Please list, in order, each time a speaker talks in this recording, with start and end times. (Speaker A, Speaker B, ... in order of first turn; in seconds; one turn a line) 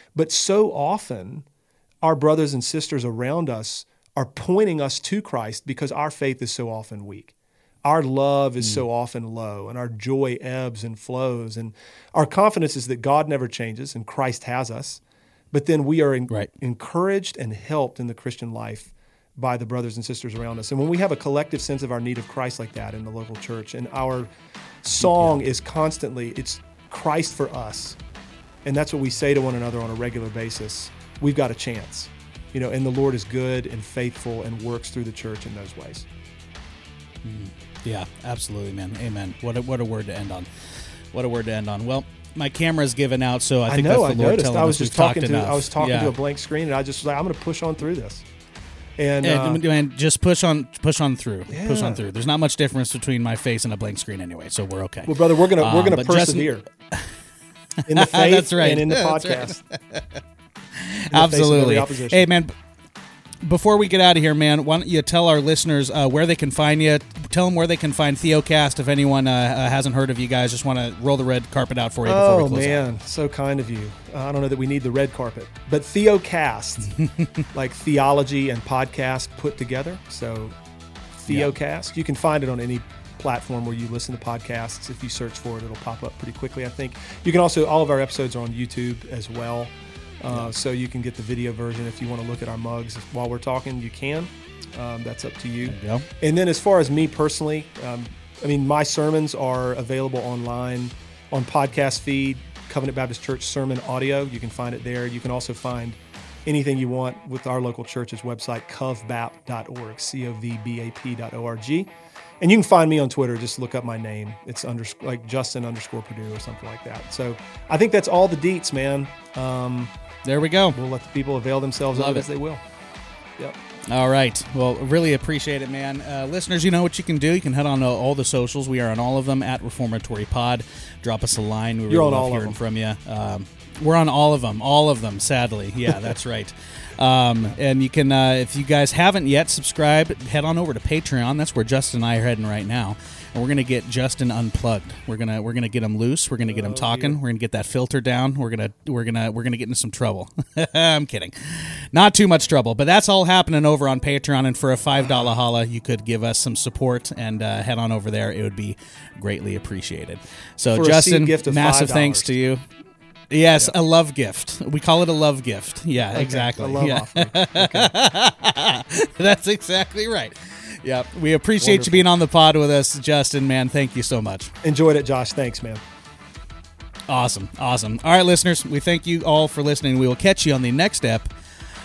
Speaker A: 0.1-1.5
Speaker A: 2.0-24.3
Speaker A: 24.8-28.0
Speaker B: 25.0-25.4
Speaker A: 28.6-36.1
Speaker B: 37.2-40.5
Speaker B: 41.1-46.1
Speaker A: 43.7-48.2
Speaker A: 49.0-49.6
Speaker B: 49.2-57.1
Speaker A: 51.5-52.0
Speaker A: 55.1-56.6
Speaker B: 57.9-60.2
Speaker A: 57.9-59.6
Speaker B: 60.7-62.5
Speaker A: 61.1-62.3
Speaker B: 63.4-72.8
Speaker A: 72.0-77.0
Speaker B: 77.0-77.3
Speaker A: 77.5-80.5
Speaker A: 81.2-119.9
Speaker B: 95.7-96.1
Speaker B: 120.2-120.8
Speaker A: 120.7-122.6
Speaker B: 121.9-122.2
Speaker B: 123.9-162.6
Speaker A: 131.9-132.6
Speaker A: 146.4-147.2
Speaker A: 160.7-162.3
Speaker B: 163.3-174.5
Speaker A: 166.1-167.9
Speaker A: 171.6-172.1
Speaker A: 174.6-175.8
Speaker B: 177.1-181.3